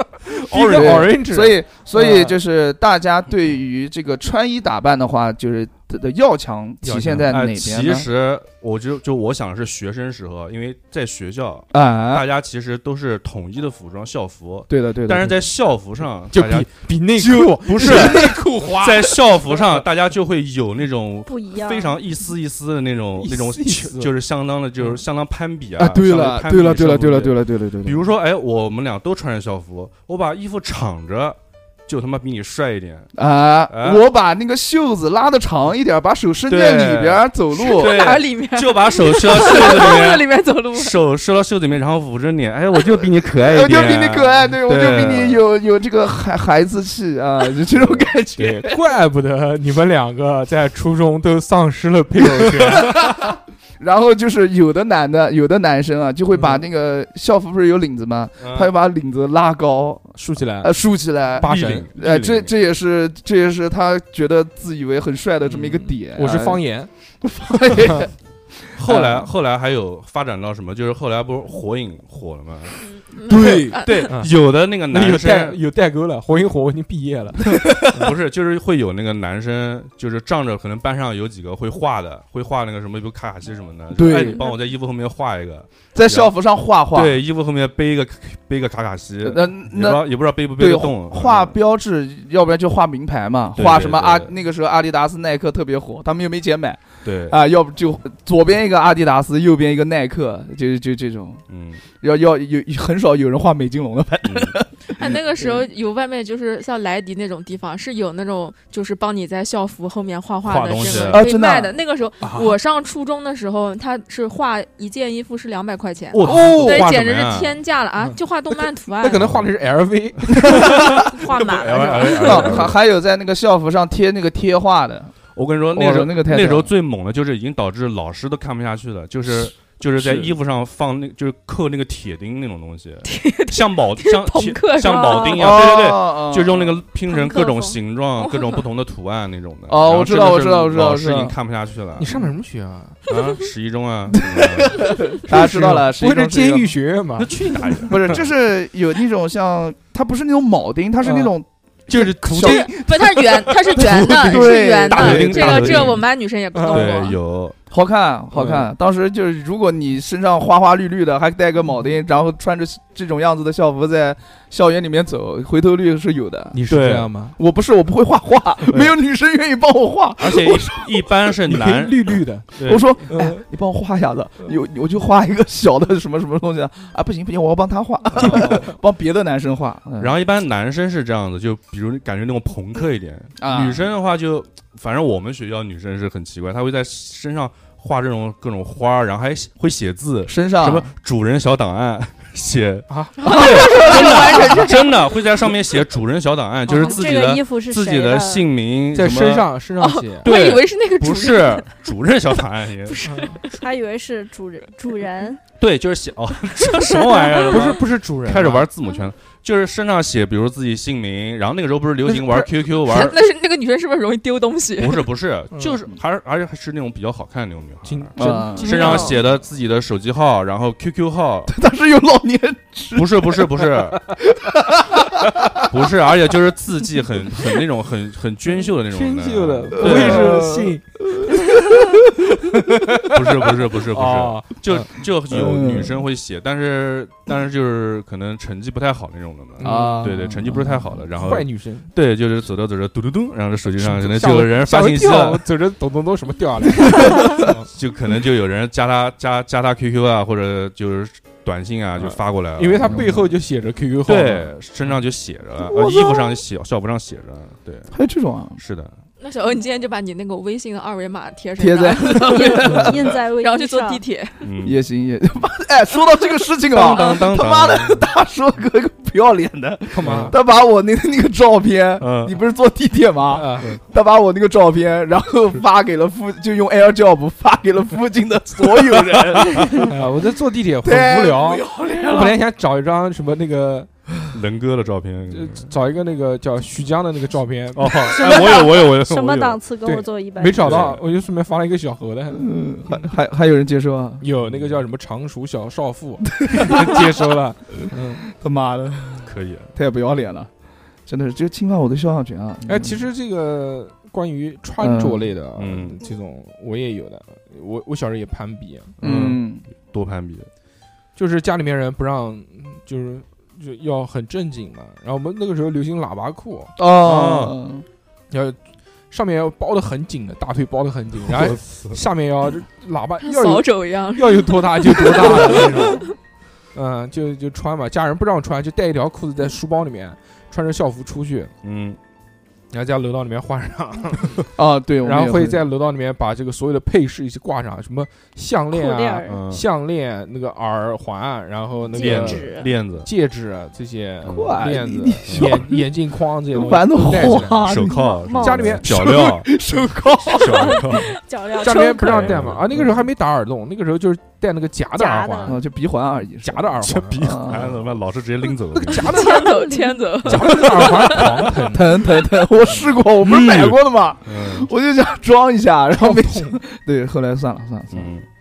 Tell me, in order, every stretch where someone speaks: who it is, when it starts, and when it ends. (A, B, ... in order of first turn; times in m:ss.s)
0:00.3-0:02.3 A
0:00.5-0:01.1 B
0:00.5-0:08.1 C
0:06.8-0:07.3 A
0:07.3-0:16.8 B
0:11.7-0:12.2 C
0:14.7-0:15.4 C
0:16.3-0:19.6 A
0:17.2-0:18.8 C
0:17.5-0:33.1 B
0:21.2-0:22.0 D
0:23.2-0:24.1 A
0:25.8-0:28.1 C
0:33.1-0:38.1 C
0:33.7-0:34.0 B
0:36.5-0:45.4 B
0:37.6-0:41.0 E
0:43.3-0:48.8 C
0:47.7-0:48.1 B
0:48.4-0:52.9 A
0:52.7-1:06.6 C
0:56.4-0:56.6 A
0:58.4-0:58.7 B
1:00.2-1:00.7 A
1:01.4-1:01.9 A
1:01.4-1:02.5 B
1:05.5-1:05.8 B
1:06.0-1:06.9 A
1:07.2-1:08.1 C
1:07.8-1:08.0 A
1:08.8-1:15.6 B
1:08.9-1:09.3 C
1:12.8-1:14.1 E
1:13.3-1:18.1 A
1:13.3-1:13.9 C
1:17.5-1:17.9 C
1:17.9-1:26.3 B
1:23.9-1:24.5 C
1:25.9-1:27.2 C
1:26.9-1:31.6 B
1:29.2-1:45.6 C
1:33.6-1:34.3 B
1:37.0-1:37.4 B
1:41.5-1:41.8 B
1:44.2-1:44.6 B
1:44.9-1:59.3 E
1:50.4-1:51.2 B
1:50.9-1:51.8 C
1:52.2-1:52.5 A
1:56.1-1:57.6 B
1:56.2-1:56.9 C
1:56.3-1:56.6 A
1:59.0-2:00.7 A
1:59.1-1:59.4 B
2:00.3-2:02.8 B
2:00.4-2:01.0 C
2:00.5-2:02.6 E
2:02.1-2:05.2 C
2:05.4-2:22.1 B
2:05.7-2:06.7 C
2:09.3-2:10.4 C
2:13.0-2:15.6 E
2:15.3-2:16.8 C
2:17.1-2:18.6 E
2:19.7-2:21.4 C
2:22.0-2:23.0 A
2:23.1-2:25.0 B
2:24.2-2:26.8 C
2:25.3-2:28.1 A
2:27.2-2:28.3 B
2:27.9-2:35.9 C
2:31.0-2:31.3 A
2:31.9-2:32.7 A
2:32.4-2:37.2 E
2:33.8-2:36.0 A
2:34.9-2:36.0 B
2:36.5-2:36.9 A
2:36.7-2:37.6 B
2:37.7-2:46.6 C
2:38.3-2:38.7 A
2:46.5-2:47.4 A
2:46.7-2:47.1 B
2:47.4-2:51.1 C
2:50.2-2:52.9 B
2:51.4-2:53.4 A
2:52.6-3:00.2 C
2:58.2-2:58.6 B
2:58.2-2:58.7 A
3:00.0-3:19.5 B
3:03.4-3:03.9 C
3:10.3-3:10.9 C
3:12.9-3:13.2 A
3:13.2-3:15.1 E
3:13.2-3:14.7 C
3:16.7-3:17.0 E
3:16.8-3:18.5 D
3:18.9-3:20.3 A
3:19.8-3:21.7 E
3:20.2-3:23.0 B
3:22.4-3:23.6 E
3:23.0-3:23.4 A
3:23.5-3:25.4 D
3:25.6-3:33.2 B
3:26.6-3:27.6 E
3:27.5-3:28.6 A
3:32.1-3:32.5 A
3:32.8-3:35.1 E
3:34.8-3:41.5 B
3:35.5-3:35.8 A
3:37.8-3:39.2 A
3:38.2-3:39.1 C
3:38.7-3:39.1 E
3:41.5-3:45.6 C
3:42.9-3:44.1 B
3:45.6-3:50.4 B
3:48.9-3:53.2 A
3:49.8-3:52.1 C
3:53.1-4:05.4 B
3:53.9-3:54.9 A
3:55.3-3:56.0 C
3:59.6-4:00.2 A
3:59.6-4:01.0 C
4:01.2-4:01.9 A
4:03.8-4:07.7 A
4:07.1-4:13.2 B
4:12.0-4:14.9 A
4:12.8-4:13.2 C
4:14.0-4:17.9 B
4:15.6-4:16.4 C
4:17.9-4:18.6 C
4:18.6-4:18.9 B
4:19.2-4:22.8 E
4:21.6-4:23.1 C
4:22.2-4:24.0 D
4:23.4-4:24.3 E
4:24.4-4:24.8 B
4:24.6-4:39.9 C
4:26.7-4:28.0 B
4:29.9-4:30.4 A
4:30.0-4:30.3 B
4:32.0-4:32.4 B
4:33.3-4:33.7 A
4:39.1-4:39.9 B
4:39.8-4:43.9 A
4:40.8-4:42.4 C
4:44.3-4:45.7 B
4:45.3-4:48.1 A
4:47.7-4:49.6 B
4:48.0-4:50.9 D
4:49.8-4:53.1 A
4:50.6-4:51.0 B
4:52.3-4:54.2 C
4:54.2-4:58.2 A
4:54.4-4:54.8 B
4:56.4-4:57.1 C
4:58.3-5:00.5 C
4:59.2-4:59.7 B
5:01.1-5:03.0 C
5:02.6-5:08.9 A
5:04.8-5:05.3 C
5:05.6-5:06.0 B
5:09.0-5:10.5 B
5:09.0-5:09.6 C
5:11.2-5:16.7 A
5:16.8-5:17.8 C
5:17.0-5:17.6 B
5:18.3-5:18.6 A
5:19.1-5:26.1 A
5:21.3-5:22.0 B
5:23.2-5:26.1 E
5:26.7-5:31.5 A
5:31.6-5:32.0 B
5:32.7-5:34.5 A
5:34.6-5:35.6 C
5:35.0-5:47.7 A
5:38.7-5:39.4 D
5:39.2-5:39.6 B
5:41.9-5:42.7 D
5:42.0-5:43.1 B
5:44.2-5:44.6 B
5:44.2-5:45.8 C
5:45.3-5:45.6 B
5:46.5-5:48.0 C
5:47.2-5:49.5 B
5:47.8-5:48.8 D
5:48.4-5:49.2 A
5:48.8-5:50.9 C
5:50.4-5:51.2 B
5:50.4-5:52.4 D
5:51.6-5:55.6 A
5:52.1-5:52.7 B
5:54.9-5:55.6 D
5:55.4-5:57.8 C
5:56.4-5:57.7 A
5:56.8-5:59.1 B
5:58.7-5:59.6 A
5:59.0-6:01.4 E
5:59.2-6:00.0 D
6:00.2-6:02.0 A
6:00.2-6:00.6 B
6:01.7-6:08.1 C
6:03.2-6:04.7 B
6:05.9-6:06.6 A
6:07.9-6:08.2 B